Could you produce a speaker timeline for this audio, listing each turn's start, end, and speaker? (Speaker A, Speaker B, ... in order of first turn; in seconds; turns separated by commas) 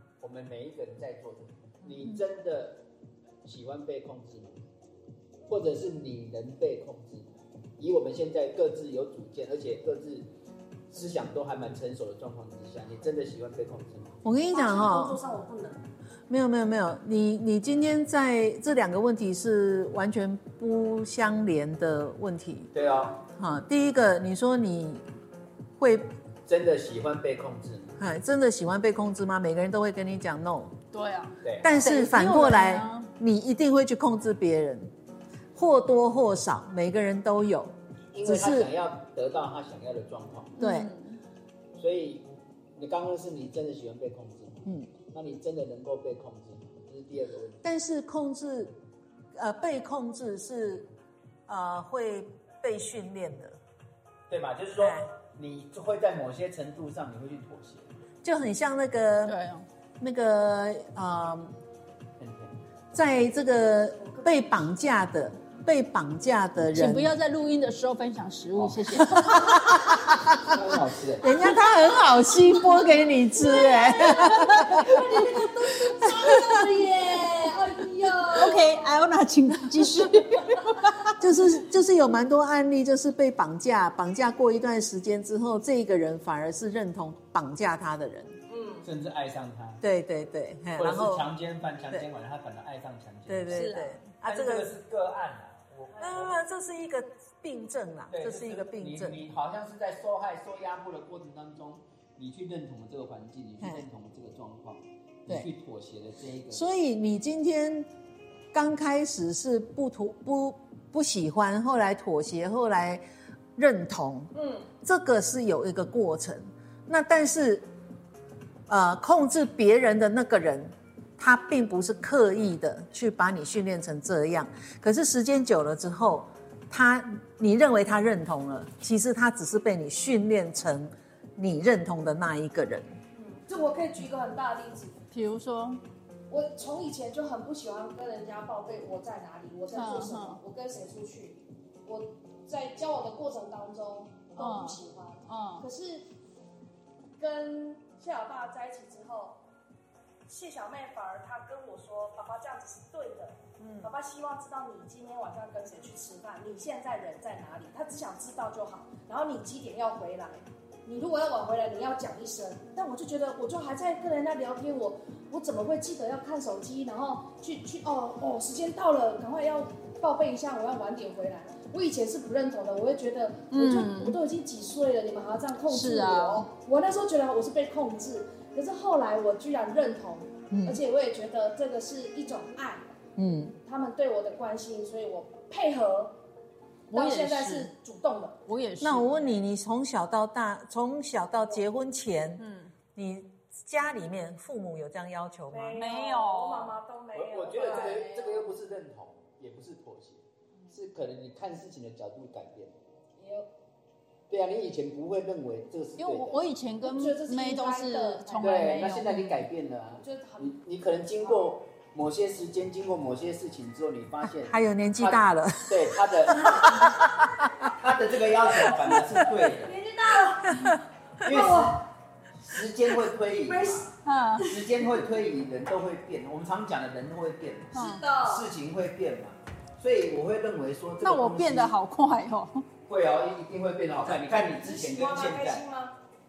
Speaker A: 0.2-2.8, Speaker A: 3.4-4.6, Speaker A: 5.5-10.3, Speaker A: 10.9-14.2, Speaker B: 14.2-15.2, Speaker C: 14.5-15.8, Speaker B: 16.3-22.7, Speaker A: 22.7-23.2, Speaker B: 23.3-25.0, Speaker B: 25.8-26.1, Speaker A: 26.4-28.0, Speaker B: 28.0-30.7, Speaker D: 30.9-33.1, Speaker A: 31.4-31.7, Speaker B: 31.6-34.9, Speaker B: 35.5-37.7, Speaker A: 38.1-40.5, Speaker B: 38.2-38.7, Speaker B: 40.6-40.9, Speaker D: 40.6-41.2, Speaker A: 41.8-42.2, Speaker A: 42.8-47.6, Speaker B: 47.6-48.7, Speaker B: 49.3-50.9, Speaker B: 51.5-53.6, Speaker A: 54.3-57.9, Speaker B: 54.8-55.1, Speaker B: 58.2-59.4, Speaker D: 59.2-59.6, Speaker B: 60.0-61.5, Speaker A: 62.2-62.5, Speaker B: 62.9-67.1, Speaker C: 64.0-64.4, Speaker D: 66.7-69.9, Speaker A: 68.6-68.9, Speaker B: 69.0-70.6, Speaker A: 70.4-71.4, Speaker B: 71.2-75.3, Speaker C: 73.3-78.8, Speaker D: 74.2-75.0, Speaker B: 76.2-76.6, Speaker D: 78.3-81.1, Speaker B: 81.2-88.3, Speaker C: 88.5-88.8, Speaker A: 88.8-89.8, Speaker B: 89.8-91.3, Speaker A: 90.8-96.4, Speaker B: 93.3-94.7, Speaker D: 93.5-94.0, Speaker B: 96.0-99.2, Speaker A: 98.1-106.6, Speaker B: 106.5-107.9, Speaker B: 108.5-113.0, Speaker B: 113.5-114.3, Speaker C: 114.3-114.7, Speaker B: 114.8-117.6, Speaker B: 118.7-132.9, Speaker C: 133.1-135.0, Speaker D: 135.1-135.8, Speaker C: 136.3-146.1, Speaker D: 139.7-140.4, Speaker D: 144.4-145.7, Speaker C: 147.2-149.4, Speaker C: 150.3-182.9, Speaker D: 153.6-153.9, Speaker D: 173.5-174.2, Speaker D: 175.7-176.4, Speaker B: 180.5-180.8, Speaker B: 183.2-183.6, Speaker C: 183.6-186.2, Speaker D: 186.9-187.7, Speaker C: 186.9-188.4, Speaker D: 188.4-189.2, Speaker B: 188.8-192.4, Speaker D: 192.4-192.7, Speaker B: 192.9-195.8, Speaker C: 195.5-198.5, Speaker D: 195.8-196.8, Speaker A: 197.1-202.7, Speaker C: 203.2-203.5, Speaker A: 204.3-206.4, Speaker D: 206.0-209.4, Speaker C: 206.8-208.9, Speaker A: 208.4-216.9, Speaker C: 210.0-210.5, Speaker B: 214.5-217.7, Speaker A: 217.7-219.7, Speaker B: 218.7-219.2, Speaker C: 219.5-221.8, Speaker B: 220.5-220.8, Speaker A: 221.2-221.9, Speaker A: 222.4-223.9, Speaker C: 223.4-223.9, Speaker D: 224.0-224.5, Speaker A: 224.4-231.7, Speaker D: 227.7-228.0, Speaker C: 227.7-228.5, Speaker D: 231.0-232.7, Speaker A: 232.9-235.6, Speaker C: 234.4-235.9